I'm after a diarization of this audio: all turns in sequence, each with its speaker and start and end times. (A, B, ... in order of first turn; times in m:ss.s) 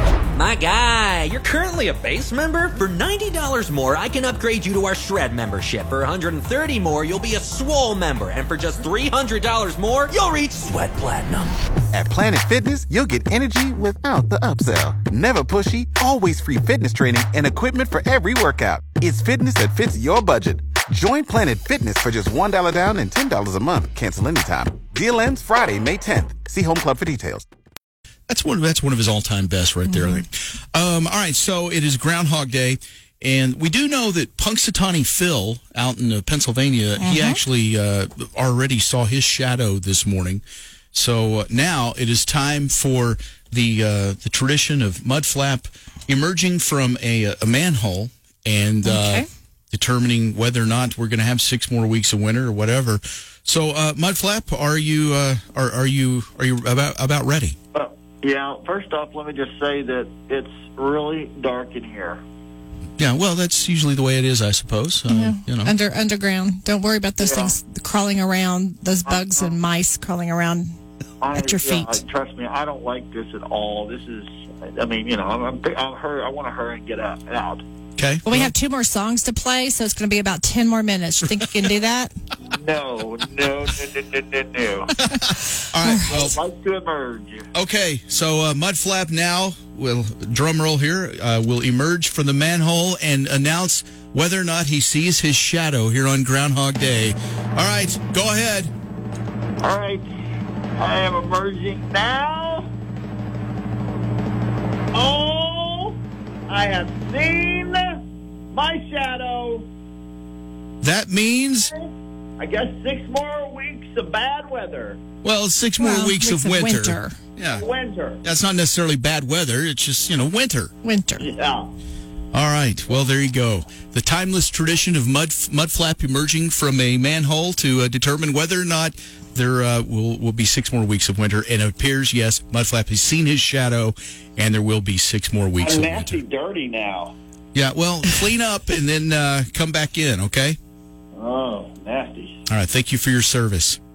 0:00.3-0:11.6 A
0:11.9-0:27.5 B
0:28.3-0:57.6 C
0:37.0-0:37.4 D
0:48.8-0:49.3 D
0:57.7-1:02.2 E
1:03.0-1:05.7 C
1:05.1-1:10.7 D
1:07.2-1:07.6 E
1:08.9-1:09.4 A
1:09.1-1:09.6 E
1:11.2-1:17.6 E
1:11.4-1:11.8 D
1:18.0-1:18.5 C
1:18.3-1:22.1 D
1:22.4-1:25.0 E
1:25.1-1:26.4 C
1:26.0-1:27.5 E
1:27.5-1:38.7 C
1:39.6-1:40.0 E
1:40.8-1:42.7 E
1:44.9-1:48.0 E
1:48.5-1:49.7 E
1:50.8-1:51.7 C
1:51.7-1:55.0 E
1:55.2-1:57.6 C
1:55.8-1:57.1 D
1:57.5-1:58.2 E
1:58.2-2:00.7 C
2:00.8-2:01.2 D
2:01.2-2:01.7 E
2:02.3-2:16.2 C
2:15.6-2:17.1 E
2:17.5-2:20.6 C
2:21.1-2:22.4 E
2:22.5-2:23.8 C